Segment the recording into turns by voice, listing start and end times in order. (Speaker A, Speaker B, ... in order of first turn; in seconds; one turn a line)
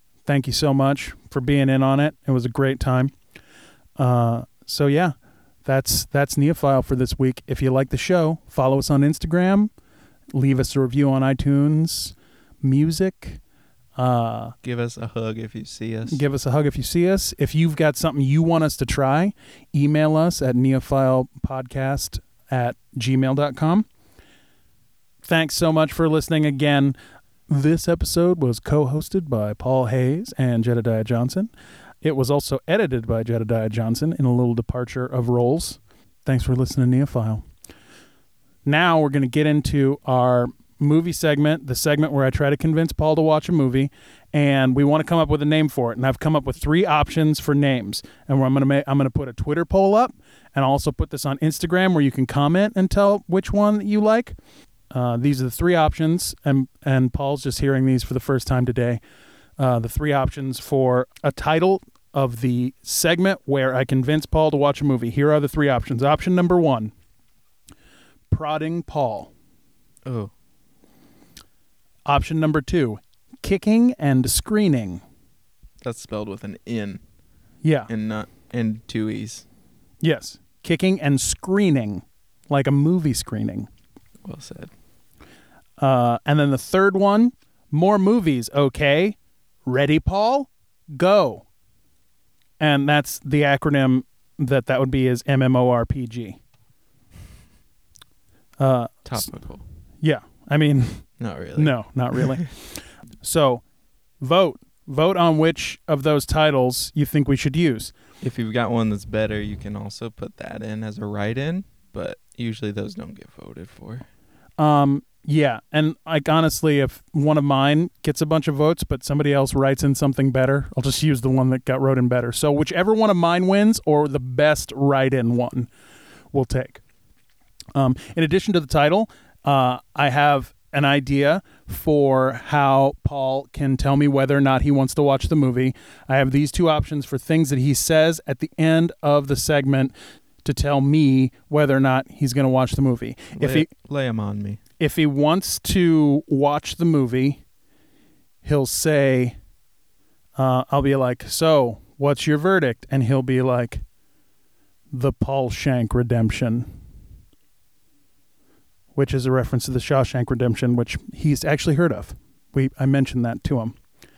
Speaker A: 0.2-3.1
Speaker A: 4.0-9.7
Speaker A: 10.3-13.4
Speaker A: 13.9-14.6
Speaker B: 14.6-16.2
Speaker A: 16.1-23.9
Speaker A: 25.2-26.9
Speaker A: 27.5-31.5
Speaker A: 32.0-37.4
Speaker A: 38.6-54.4
Speaker A: 54.9-59.0
Speaker A: 59.6-66.9
Speaker A: 68.3-69.3
Speaker B: 70.0-70.3
Speaker A: 72.1-75.0
Speaker B: 75.8-77.0
Speaker A: 77.6-77.9
Speaker B: 77.9-79.4
Speaker A: 80.0-83.7
Speaker B: 84.2-84.7
Speaker A: 85.8-91.4
Speaker A: 92.6-96.4
Speaker A: 98.6-99.3
Speaker B: 99.1-99.6
Speaker A: 100.0-103.6
Speaker B: 101.2-102.4
Speaker A: 104.2-107.9
Speaker B: 108.2-114.0
Speaker A: 114.6-125.7
Speaker A: 126.3-126.8
Speaker A: 127.7-143.7
Speaker B: 143.4-144.6
Speaker A: 144.8-147.4
Speaker A: 148.4-149.4
Speaker A: 150.4-153.8
Speaker A: 154.9-156.7
Speaker A: 158.9-163.8